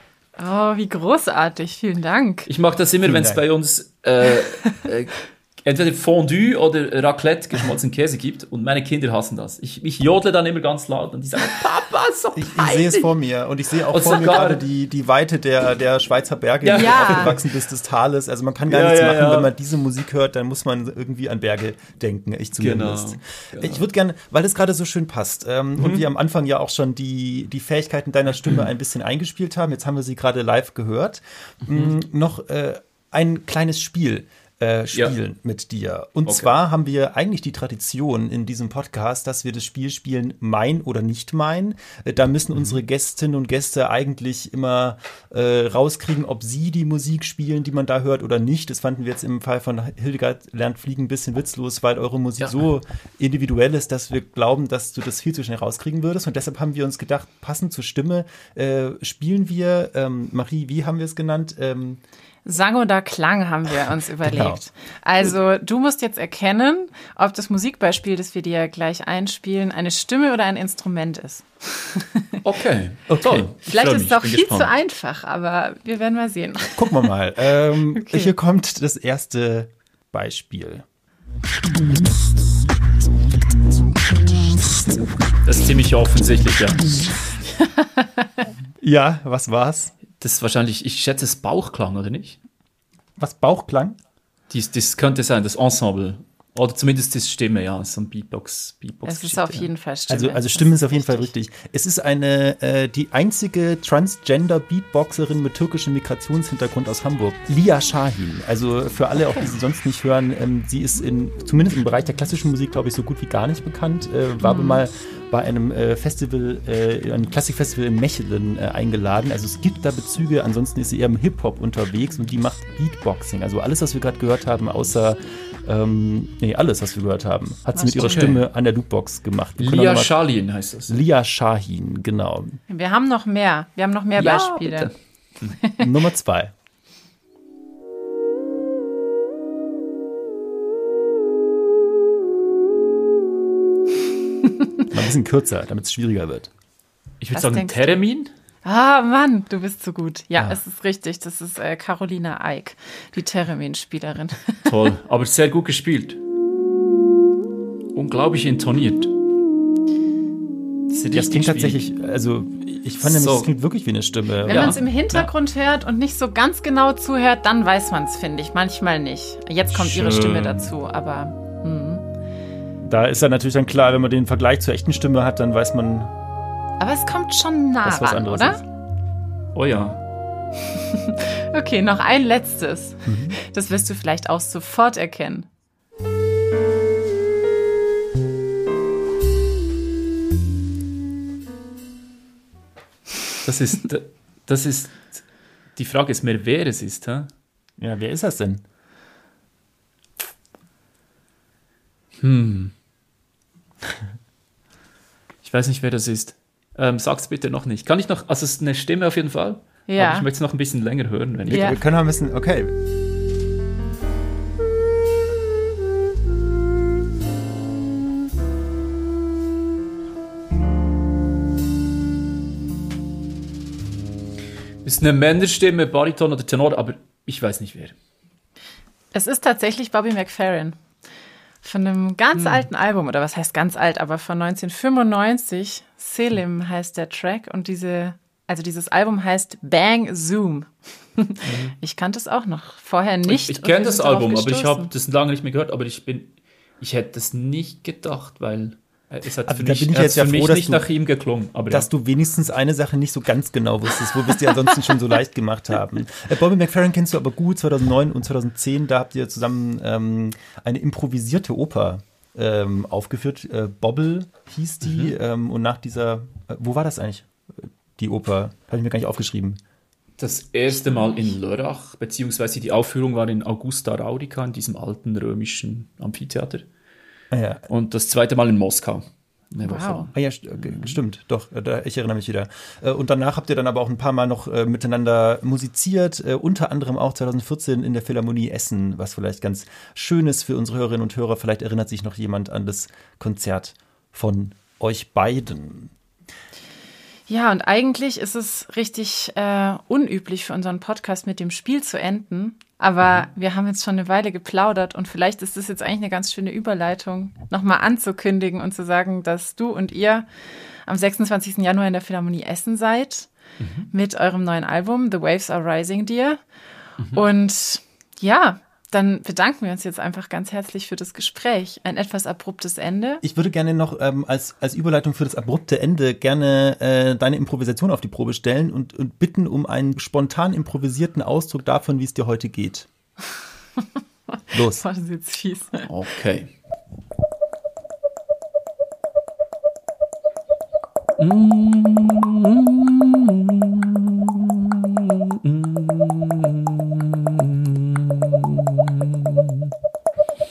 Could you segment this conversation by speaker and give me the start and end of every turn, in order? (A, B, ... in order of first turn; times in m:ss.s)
0:00.4-0:02.5 A
0:02.5-0:13.1 B
0:03.0-0:03.4 C
0:12.3-1:02.0 C
0:13.9-0:14.6 B
0:16.6-0:17.4 B
0:16.7-0:17.3 A
0:18.7-0:19.5 B
0:22.6-0:23.8 B
0:25.8-0:26.0 B
0:31.7-0:31.9 B
0:36.2-0:36.5 B
1:02.4-1:12.4 A
1:04.2-1:04.6 C
1:12.4-1:14.7 B
1:13.6-1:16.9 A
1:16.8-1:20.8 C
1:18.0-1:18.3 A
1:25.4-1:27.1 B
1:28.8-1:29.9 C
1:30.2-1:32.4 B
1:33.2-1:34.0 C
1:34.5-1:39.7 B
1:39.0-1:41.3 A
1:40.1-2:10.1 C
1:54.4-1:54.8 A
2:07.7-2:08.4 B
2:09.6-2:11.0 B
2:10.9-2:12.6 C
2:12.7-2:14.9 A
2:14.2-2:15.5 B
2:15.8-2:16.5 C
2:24.9-2:26.5 C
2:27.2-2:28.3 B
2:27.3-2:28.0 A
2:28.6-2:34.7 A
2:34.6-2:36.2 B
2:37.9-2:39.1 B
2:40.9-2:41.8 B
2:41.1-2:44.8 C
2:43.0-2:43.5 B
2:44.4-2:52.0 A
2:44.5-2:45.3 B
2:49.7-2:50.7 B
2:52.8-2:56.1 C
2:56.8-2:58.6 A
2:57.8-2:58.6 C
2:59.5-3:00.0 B
3:00.7-3:05.5 A
3:03.0-3:03.4 C
3:13.4-3:15.2 B
3:15.8-3:17.3 B
3:17.8-3:18.6 C
3:22.2-3:22.7 B
3:25.4-3:31.8 B
3:29.9-3:30.2 A
3:31.5-3:32.7 C
3:31.5-3:31.8 A
3:44.8-3:47.9 B
3:49.1-3:50.8 A
3:51.6-4:04.9 A
3:52.3-3:52.6 B
4:01.4-4:01.7 B
4:03.3-4:11.9 B
4:09.5-4:10.9 C
4:11.7-4:29.6 C
4:30.2-4:36.6 B
4:30.8-4:31.4 A
4:37.3-4:37.6 C
4:37.7-4:41.0 B
4:39.6-4:40.1 A
4:40.1-4:55.9 C
4:57.3-5:10.3 A
5:10.8-5:13.3 A
5:13.6-5:13.9 B
5:13.9-5:16.4 A
5:17.0-5:17.2 B
5:17.1-5:23.2 A
5:23.2-5:32.9 C
5:34.5-5:34.8 C
5:34.6-5:35.9 A
5:35.9-5:36.5 B
5:41.2-5:49.7 B